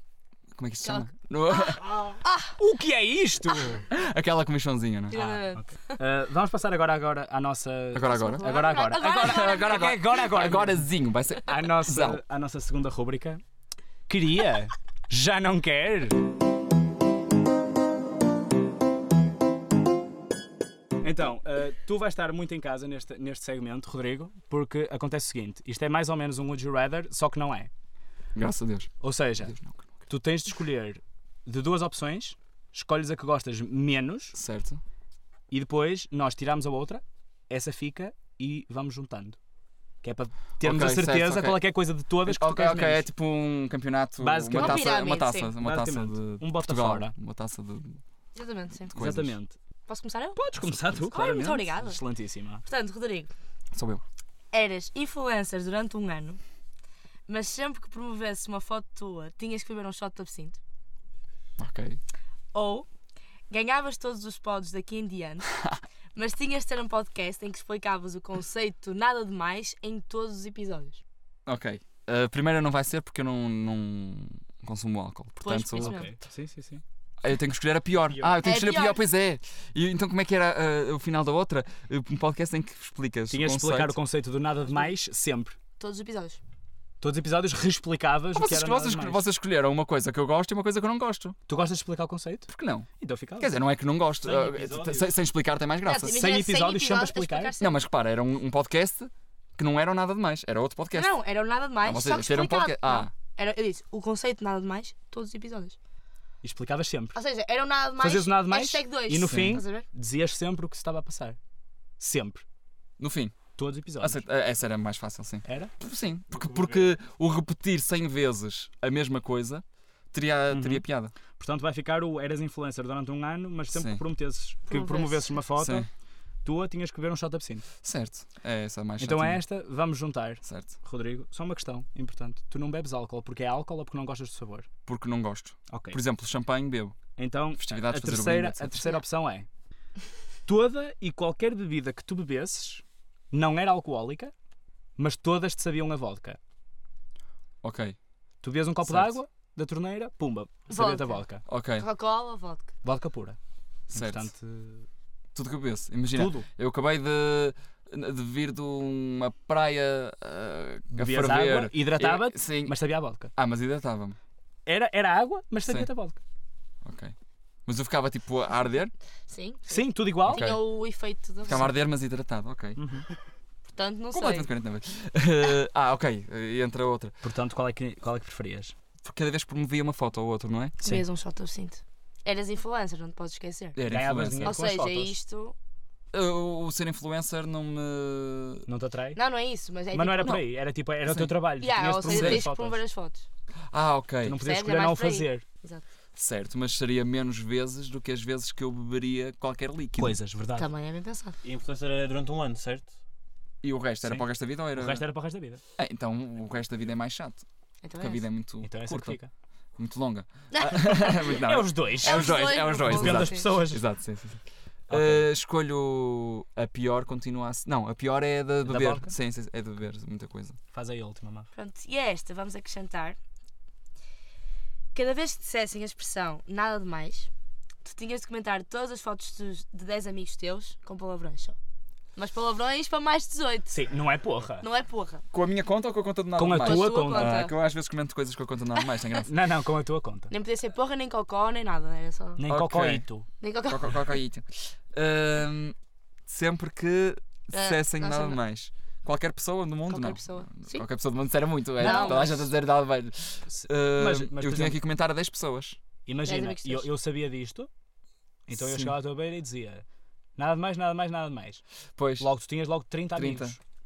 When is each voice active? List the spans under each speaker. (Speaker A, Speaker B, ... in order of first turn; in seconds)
Speaker A: 0.5-2.0, 3.9-5.4, 7.9-8.5, 9.1-12.2, 28.3-28.9, 29.4-29.8, 34.3-34.8, 40.6-41.6, 42.2-48.0, 48.9-49.4, 53.7-54.0, 61.6-62.0, 71.5-76.0, 77.2-84.0, 88.3-91.3, 92.5-96.2, 97.6-101.2, 101.8-103.1, 109.2-109.6, 113.0-113.4, 114.0-121.1, 123.7-124.0, 125.5-125.9, 127.8-129.4, 130.4-130.7, 134.9-137.0, 137.6-139.0, 147.6-148.0, 148.8-149.2, 151.4-151.8, 153.9-154.3, 155.3-162.7, 163.3-164.2, 166.8-167.1, 167.7-168.9, 170.2-170.6, 171.4-172.8, 174.1-177.1, 179.0-180.8, 183.7-184.6, 186.1-188.7, 191.1-191.3, 192.1-192.4, 193.7-194.4, 196.2-200.2, 203.6-205.1, 205.8-207.4, 208.0-209.2, 209.8-220.6, 235.3-239.3, 242.5-243.0, 243.7-245.8, 246.3-255.8, 258.5-258.9, 262.0-262.2, 263.1-263.6
Speaker B: 0.8-2.6, 5.1-6.0, 8.3-10.1, 44.5-45.5, 48.3-48.9, 49.9-50.4, 51.1-52.0, 52.6-53.3, 54.5-56.4, 57.3-60.6, 62.5-62.9, 63.5-65.5, 66.1-71.0, 75.4-76.1, 78.4-79.0, 85.8-86.4, 95.8-97.8, 100.9-105.8, 107.1-109.8, 124.7-125.3, 150.7-151.2, 151.8-152.7, 169.3-171.7, 173.7-174.5, 180.8-183.8, 184.4-185.5, 189.1-190.4, 191.6-193.2, 194.4-195.8, 200.6-201.3, 207.8-208.3, 210.5-211.4, 212.0-213.5, 221.5-223.2, 224.9-227.3, 227.8-231.6, 232.2-233.8, 234.6-235.2, 236.5-237.5, 240.3-242.4, 243.4-244.1, 247.5-248.4, 249.9-250.8, 251.8-252.4, 256.2-256.9
Speaker C: 2.6-3.9, 5.3-10.9, 11.5-13.4, 14.1-16.2, 21.0-27.7, 29.0-29.5, 30.1-34.3, 35.5-39.4, 40.0-43.1, 44.2-45.0, 45.6-47.1, 49.0-49.5, 50.4-52.6, 75.8-76.8, 83.3-85.5, 87.0-89.2, 91.5-93.5, 96.0-97.5, 106.4-107.2, 108.0-111.4, 112.0-112.4, 113.6-114.2, 115.5-115.7, 120.5-120.8, 121.4-125.9, 126.4-127.6, 129.0-134.7, 135.7-136.0, 137.2-139.4, 140.4-144.3, 145.0-146.4, 148.4-151.4, 152.8-153.4, 153.9-154.8, 156.1-156.5, 160.9-163.3, 164.7-166.2, 169.7-170.6, 172.8-173.1, 177.2-178.7, 183.9-185.2, 188.7-189.2, 189.9-192.8, 194.2-195.4, 200.0-200.7, 204.0-205.6, 208.6-209.3, 211.3-213.8, 214.9-215.2, 218.7-219.1, 220.7-221.5, 233.7-234.6, 236.4-237.4, 239.2-240.3, 242.4-243.3, 251.8-252.5, 253.5-254.8, 256.1-257.7, 258.5-259.8, 260.4-261.6, 262.2-263.6
Speaker D: 94.2-95.2, 116.3-116.9, 201.4-202.9